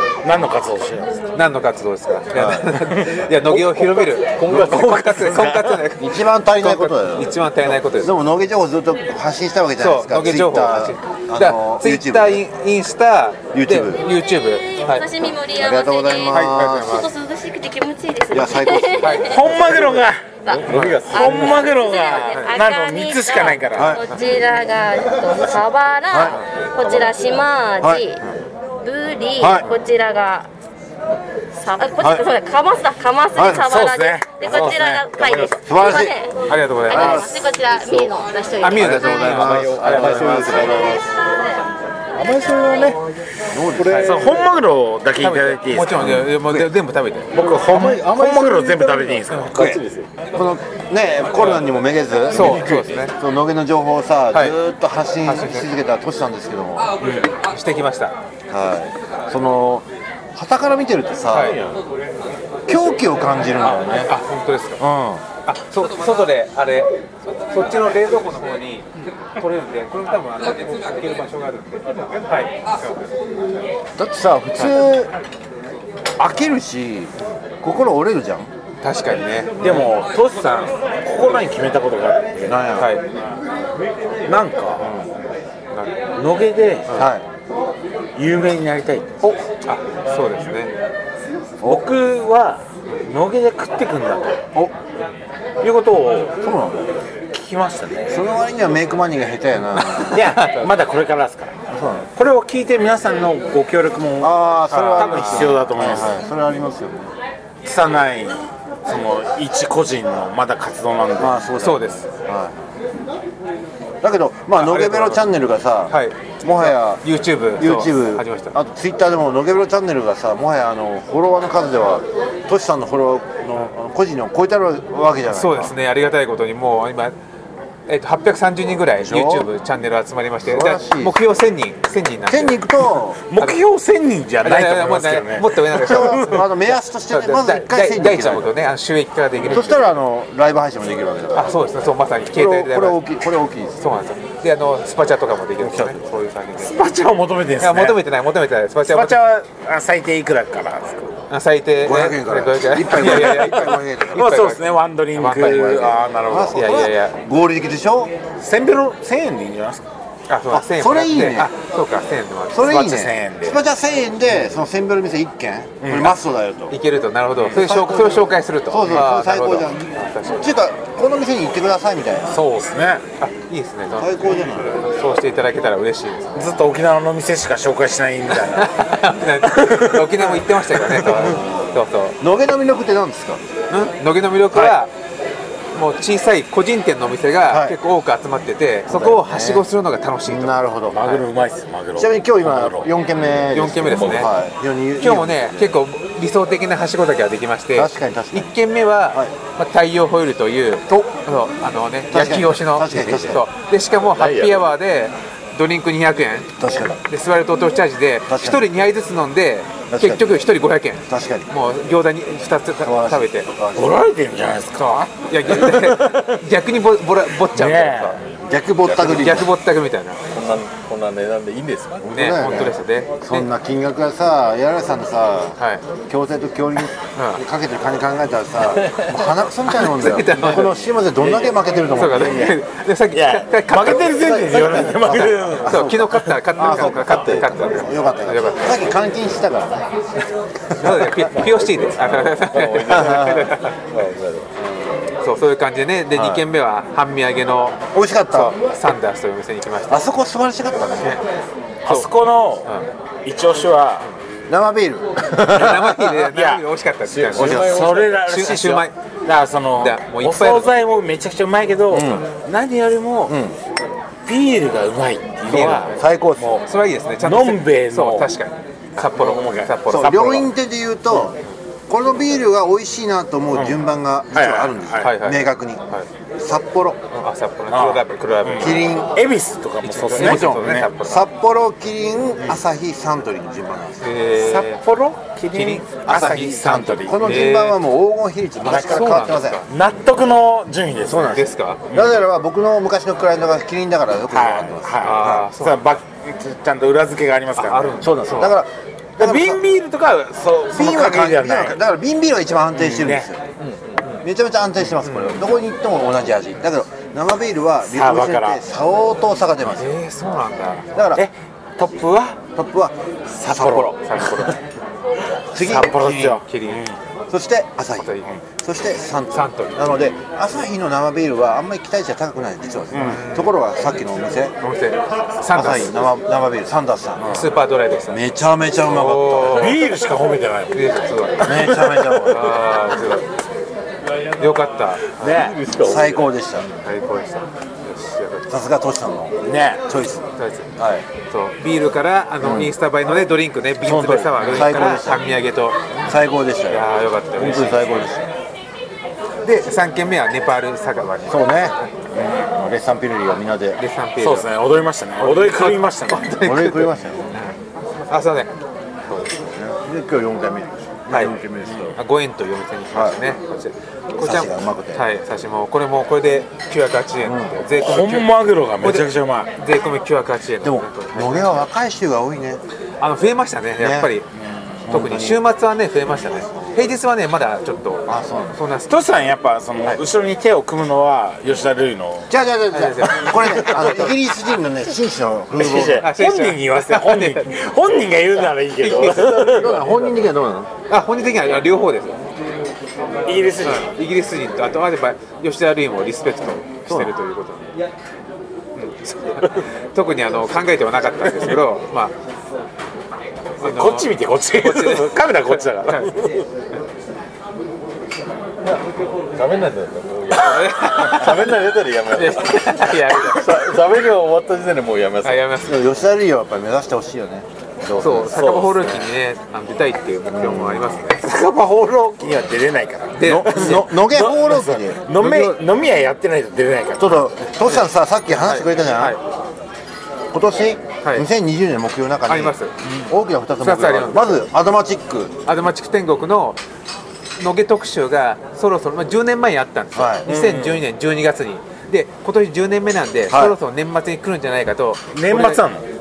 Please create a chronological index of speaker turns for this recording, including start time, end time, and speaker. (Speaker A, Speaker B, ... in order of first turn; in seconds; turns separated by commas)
Speaker A: 0.2-1.1, Speaker B: 1.3-8.1, Speaker C: 2.3-2.8, Speaker A: 2.8-5.8, Speaker C: 6.0-12.4, Speaker B: 9.8-15.0, Speaker C: 13.5-14.1, Speaker D: 14.6-19.8, Speaker C: 15.6-17.0, Speaker B: 16.3-17.1, Speaker C: 18.3-20.0, Speaker B: 19.0-19.4, Speaker A: 19.2-20.4, Speaker D: 20.4-28.2, Speaker E: 20.5-21.7, Speaker B: 20.7-21.0, Speaker A: 21.1-24.0, Speaker C: 23.7-24.0, Speaker C: 26.1-27.1, Speaker C: 27.8-28.3, Speaker D: 28.8-30.5, Speaker C: 29.4-29.7, Speaker D: 31.5-36.3, Speaker C: 32.0-32.3, Speaker C: 33.3-33.6, Speaker A: 33.6-35.6, Speaker C: 35.4-36.2, Speaker B: 35.9-38.1, Speaker D: 36.9-39.4, Speaker C: 36.9-37.5, Speaker B: 38.6-40.7, Speaker C: 38.7-41.1, Speaker E: 39.4-41.0, Speaker D: 41.0-41.6, Speaker E: 42.2-43.0, Speaker A: 42.3-42.9, Speaker C: 43.5-44.2, Speaker E: 43.7-44.4, Speaker A: 43.9-46.7, Speaker B: 45.2-47.3, Speaker A: 47.3-49.8, Speaker E: 47.4-50.0, Speaker C: 49.5-49.8, Speaker C: 50.3-57.0, Speaker B: 52.3-53.1, Speaker E: 52.5-52.9, Speaker B: 55.2-55.7, Speaker B: 57.0-58.1, Speaker C: 58.5-61.6, Speaker B: 61.3-61.6, Speaker E: 61.5-61.8, Speaker C: 62.7-64.1, Speaker B: 64.0-64.8, Speaker C: 64.8-65.2, Speaker B: 65.5-73.0, Speaker C: 74.0-75.1, Speaker C: 76.2-78.5, Speaker B: 78.8-79.9, Speaker A: 79.6-82.6, Speaker C: 82.4-82.9, Speaker B: 82.8-83.1, Speaker A: 84.2-84.9, Speaker A: 86.2-86.9, Speaker C: 86.9-87.2, Speaker A: 88.2-89.2, Speaker B: 89.2-90.7, Speaker C: 91.6-91.9, Speaker A: 91.7-94.5, Speaker A: 95.6-96.3, Speaker C: 96.4-96.9, Speaker A: 97.3-98.1, Speaker C: 98.1-100.2, Speaker B: 100.0-100.7, Speaker A: 100.0-101.5, Speaker C: 101.7-102.1, Speaker A: 102.2-106.2, Speaker C: 104.2-107.1, Speaker B: 104.7-105.6, Speaker A: 107.6-111.3, Speaker C: 111.2-112.5, Speaker B: 111.6-112.1, Speaker C: 114.0-117.0, Speaker B: 114.5-115.3, Speaker B: 115.9-118.5, Speaker C: 117.6-125.7, Speaker B: 125.3-127.1, Speaker B: 127.9-132.7, Speaker C: 129.0-129.5, Speaker C: 130.4-131.2, Speaker C: 132.3-133.2, Speaker A: 133.3-136.4, Speaker B: 134.4-139.8, Speaker C: 135.8-138.5, Speaker C: 139.4-141.5, Speaker B: 141.3-143.0, Speaker C: 142.3-143.8, Speaker B: 143.8-146.8, Speaker C: 145.6-146.1, Speaker A: 146.6-148.0, Speaker B: 147.6-149.2, Speaker A: 148.8-151.2, Speaker B: 151.3-155.9, Speaker C: 151.8-154.4, Speaker A: 152.9-156.7, Speaker C: 155.5-158.1, Speaker B: 156.5-157.2, Speaker A: 158.4-159.8, Speaker B: 160.3-162.8, Speaker C: 160.5-161.5, Speaker C: 162.5-166.8, Speaker A: 162.6-163.6, Speaker A: 165.8-166.2, Speaker B: 166.7-170.5, Speaker C: 167.5-172.4, Speaker A: 172.3-173.0, Speaker B: 173.2-174.2, Speaker C: 173.9-174.8, Speaker B: 174.7-176.5, Speaker A: 176.3-181.3, Speaker B: 178.4-182.2, Speaker C: 181.0-183.4, Speaker B: 183.7-184.9, Speaker B: 185.7-190.5, Speaker C: 187.5-187.8, Speaker C: 188.9-189.7, Speaker C: 190.2-191.1, Speaker A: 190.9-192.9, Speaker C: 192.0-195.7, Speaker B: 193.5-194.3, Speaker E: 193.8-194.3, Speaker B: 195.0-206.5, Speaker C: 197.7-198.5, Speaker C: 202.1-203.4, Speaker E: 204.1-204.7, Speaker C: 206.6-207.0, Speaker B: 207.1-213.5, Speaker C: 208.3-208.6, Speaker C: 209.9-210.2, Speaker C: 211.1-211.5, Speaker C: 212.8-214.0, Speaker A: 213.7-216.4, Speaker B: 214.7-218.2, Speaker A: 217.5-218.2, Speaker C: 218.4-219.5, Speaker B: 218.9-220.2, Speaker E: 220.3-222.1, Speaker C: 222.0-225.6, Speaker B: 222.1-223.5, Speaker B: 225.6-225.8, Speaker C: 226.1-232.6, Speaker B: 227.1-227.4, Speaker B: 229.7-230.8, Speaker B: 231.9-234.4, Speaker A: 233.1-236.3, Speaker C: 234.0-239.9, Speaker B: 235.0-238.9, Speaker B: 240.8-243.8, Speaker E: 241.1-244.5, Speaker C: 242.9-243.5, Speaker C: 244.6-244.9, Speaker B: 245.2-247.8, Speaker C: 246.1-246.4, Speaker C: 247.9-248.6, Speaker B: 248.3-250.1, Speaker C: 249.9-251.2, Speaker A: 251.8-252.7, Speaker A: 253.2-254.1, Speaker C: 254.5-255.9, Speaker B: 255.4-258.9, Speaker A: 255.7-256.6, Speaker E: 257.1-258.2, Speaker C: 257.4-257.9, Speaker A: 257.4-263.4, Speaker B: 259.8-260.7, Speaker C: 261.9-262.3, Speaker C: 263.3-263.6, Speaker A: 264.2-266.6, Speaker B: 265.5-266.0, Speaker C: 265.9-266.6, Speaker B: 266.6-270.5, Speaker A: 267.2-268.3, Speaker A: 269.1-269.7, Speaker C: 269.9-277.2, Speaker A: 274.3-275.1, Speaker B: 275.0-276.1, Speaker B: 277.2-278.9, Speaker A: 277.7-280.9, Speaker C: 278.6-279.2, Speaker B: 279.8-281.3, Speaker C: 280.1-284.1, Speaker B: 284.0-284.8, Speaker A: 284.4-287.6, Speaker B: 285.5-286.6, Speaker C: 286.1-289.6, Speaker B: 287.2-287.8, Speaker B: 288.6-289.7, Speaker A: 288.6-291.4, Speaker C: 291.1-295.4, Speaker B: 291.2-291.8, Speaker A: 291.9-292.2, Speaker A: 294.3-298.0, Speaker B: 295.0-295.8, Speaker B: 297.6-298.5, Speaker C: 298.0-299.6, Speaker A: 299.2-301.8, Speaker C: 300.7-303.4, Speaker A: 302.8-303.3, Speaker B: 303.6-304.2, Speaker C: 304.2-309.9, Speaker B: 305.0-305.4, Speaker A: 307.9-308.6, Speaker B: 309.8-310.8, Speaker C: 310.9-311.2, Speaker A: 311.1-312.4, Speaker C: 312.5-313.9, Speaker A: 313.3-314.5, Speaker B: 314.0-314.6, Speaker C: 315.5-316.4, Speaker A: 315.5-317.0, Speaker B: 315.7-316.8, Speaker C: 317.3-324.5, Speaker B: 318.0-318.2, Speaker B: 319.3-319.8, Speaker A: 322.9-323.3, Speaker B: 323.0-323.5, Speaker B: 324.6-326.0, Speaker C: 325.5-327.4, Speaker B: 327.3-328.2, Speaker C: 328.1-329.6, Speaker B: 328.8-329.8, Speaker A: 329.5-330.9, Speaker B: 330.7-333.3, Speaker C: 331.4-332.5, Speaker A: 331.5-332.3, Speaker B: 334.4-335.3, Speaker A: 335.2-335.6, Speaker E: 335.2-336.2, Speaker C: 335.8-336.6, Speaker B: 336.8-338.5, Speaker C: 338.5-341.0, Speaker A: 339.4-339.8, Speaker B: 340.4-340.7, Speaker B: 341.3-346.1, Speaker C: 342.4-342.7, Speaker A: 343.8-344.8, Speaker C: 344.4-345.4, Speaker C: 346.0-348.3, Speaker B: 346.7-348.0, Speaker A: 347.4-348.1, Speaker B: 349.4-351.9, Speaker C: 351.3-353.8, Speaker B: 353.8-354.5, Speaker A: 354.2-356.4, Speaker B: 355.2-357.6, Speaker C: 356.4-357.4, Speaker B: 358.1-358.5, Speaker C: 359.5-362.0, Speaker B: 361.1-361.3, Speaker B: 361.9-368.3, Speaker C: 362.9-363.2, Speaker C: 364.2-365.0, Speaker C: 367.2-367.6, Speaker A: 367.7-369.5, Speaker B: 368.8-371.6, Speaker C: 370.6-372.6, Speaker B: 373.0-374.3, Speaker C: 373.8-374.1, Speaker C: 374.7-375.4, Speaker B: 374.9-378.9, Speaker C: 376.4-376.7, Speaker C: 378.1-378.6, Speaker A: 378.9-382.3, Speaker C: 382.3-386.1, Speaker B: 382.7-384.1, Speaker A: 383.6-383.9, Speaker A: 385.5-389.8, Speaker B: 386.0-387.6, Speaker B: 388.8-389.5, Speaker C: 388.9-390.7, Speaker B: 390.9-392.2, Speaker A: 393.2-393.9, Speaker B: 393.6-397.8, Speaker C: 396.9-397.1, Speaker B: 398.7-402.1, Speaker B: 403.6-406.1, Speaker A: 403.6-406.4, Speaker E: 408.6-415.4, Speaker B: 410.3-411.6, Speaker B: 412.1-413.8, Speaker B: 415.2-415.8, Speaker C: 415.6-418.8, Speaker B: 418.0-421.3, Speaker E: 418.3-418.7, Speaker C: 420.3-421.0, Speaker A: 421.2-427.2, Speaker B: 423.1-423.9, Speaker C: 423.3-425.1, Speaker B: 425.1-425.6, Speaker C: 427.0-429.2, Speaker B: 427.7-429.2, Speaker C: 430.3-435.3, Speaker B: 432.3-432.7, Speaker B: 433.6-434.4, Speaker B: 435.4-436.6, Speaker B: 437.4-445.6, Speaker C: 439.9-440.2, Speaker A: 440.2-440.8, Speaker C: 443.3-443.6, Speaker A: 445.1-445.8